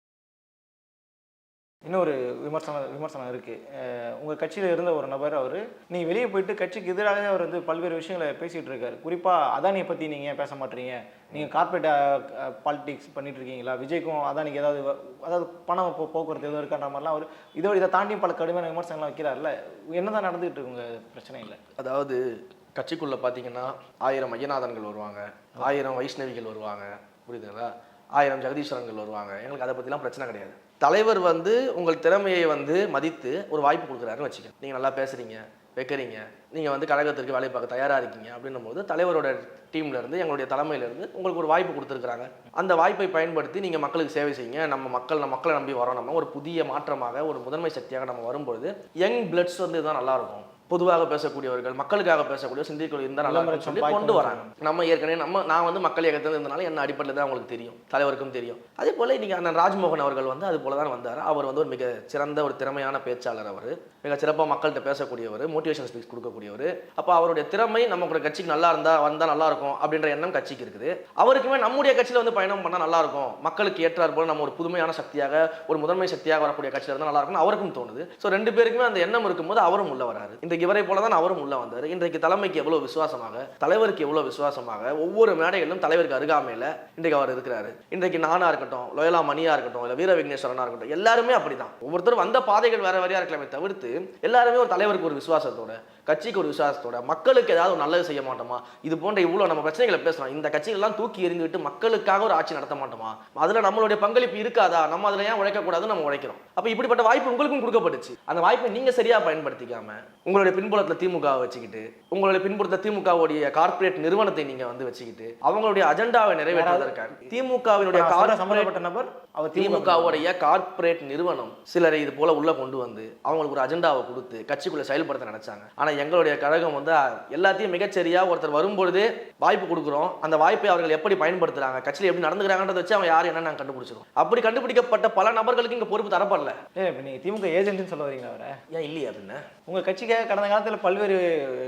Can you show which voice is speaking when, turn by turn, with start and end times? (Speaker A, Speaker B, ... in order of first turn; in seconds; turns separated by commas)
Speaker A: 1.9-21.6, Speaker B: 21.8-22.2, Speaker B: 22.8-118.7, Speaker A: 53.2-54.5, Speaker A: 116.5-116.9, Speaker A: 117.9-120.2, Speaker B: 119.5-136.5, Speaker A: 136.8-138.5, Speaker B: 138.7-139.4, Speaker A: 139.7-141.2